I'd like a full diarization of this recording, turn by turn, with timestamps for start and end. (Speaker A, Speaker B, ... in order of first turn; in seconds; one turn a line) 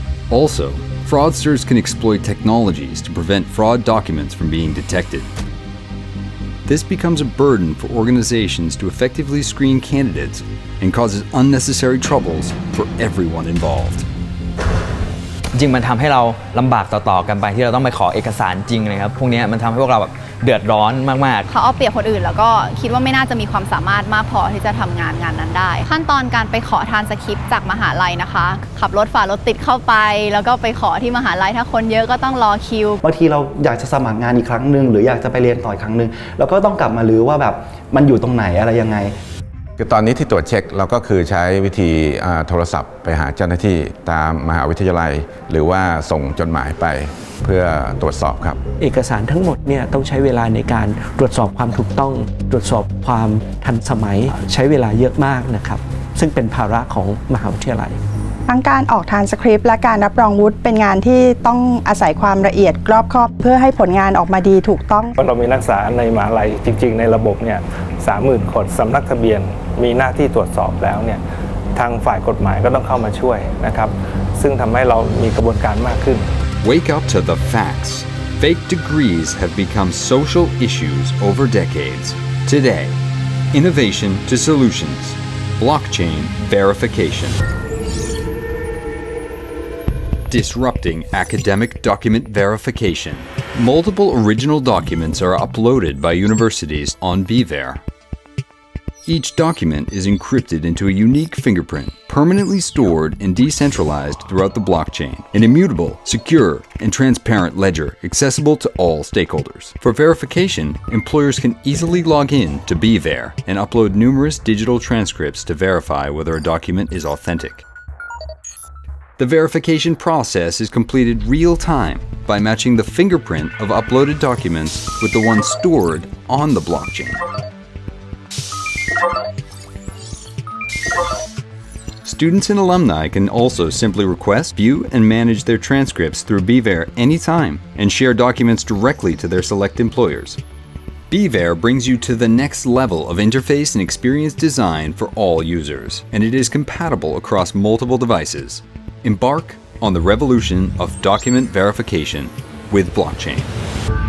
Speaker A: 0.3-5.3
Speaker A: 6.7-14.1
Speaker B: 15.5-21.5
Speaker C: 21.5-33.0
Speaker D: 33.0-39.1
Speaker E: 39.8-48.6
Speaker F: 48.8-58.0
Speaker G: 58.5-65.1
Speaker H: 65.2-71.2
Speaker H: 71.7-76.3
Speaker A: 76.6-83.0
Speaker A: 83.5-87.4
Speaker A: 90.3-97.8
Speaker A: 99.0-117.7
Speaker A: 119.2-127.2
Speaker A: 132.0-140.4
Speaker A: 141.1-153.5